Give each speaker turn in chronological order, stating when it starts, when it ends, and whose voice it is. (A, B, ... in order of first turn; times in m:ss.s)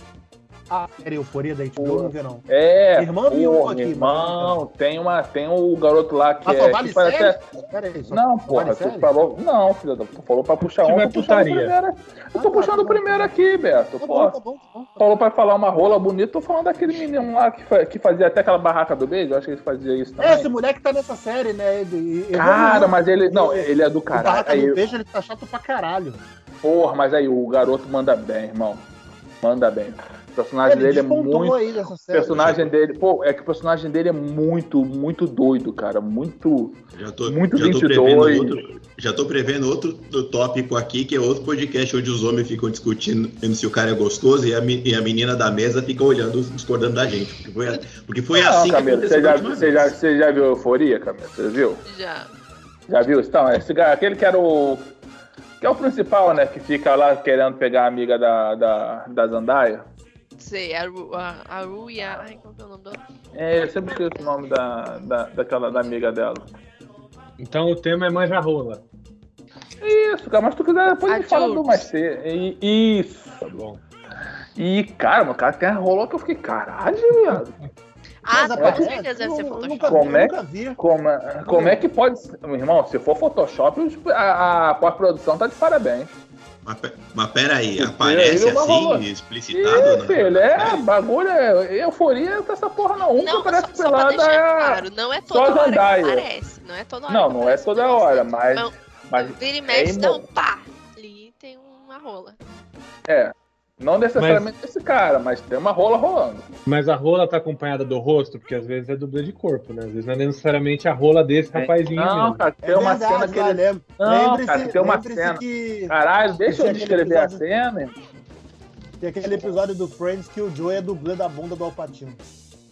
0:00.7-0:04.6 A
0:01.8-0:07.5 B
0:06.4-0:09.1 A
0:08.1-0:14.4 B
0:10.6-0:11.8 C
0:12.3-0:13.4 A
0:14.0-0:15.0 A
0:15.0-0:20.5 B
0:20.2-0:26.2 A
0:22.3-0:24.8 B
0:26.6-0:28.9 B
0:29.4-0:38.6 B
0:30.6-0:32.5 A
0:32.3-0:32.7 D
0:36.9-0:50.0 D
0:48.3-0:51.8 B
0:51.9-0:52.3 E
0:52.9-0:54.9 B
0:55.6-0:59.8 B
1:00.4-1:03.0 E
1:03.3-1:06.5 B
1:03.6-1:04.4 E
1:07.4-1:08.8 C
1:09.8-1:13.5 B
1:11.1-1:11.9 E
1:13.5-1:13.8 C
1:14.6-1:17.6 B
1:18.2-1:20.0 E
1:18.3-1:20.8 A
1:18.6-1:18.9 B
1:19.9-1:26.1 B
1:21.4-1:21.8 A
1:26.6-1:30.8 D
1:27.8-1:36.3 B
1:29.7-1:30.1 A
1:33.2-1:42.4 E
1:37.1-1:40.2 B
1:43.1-1:46.5 B
1:44.2-1:44.5 C
1:46.6-1:52.4 C
1:51.5-1:58.0 B
1:52.6-1:57.4 A
1:59.0-2:02.2 A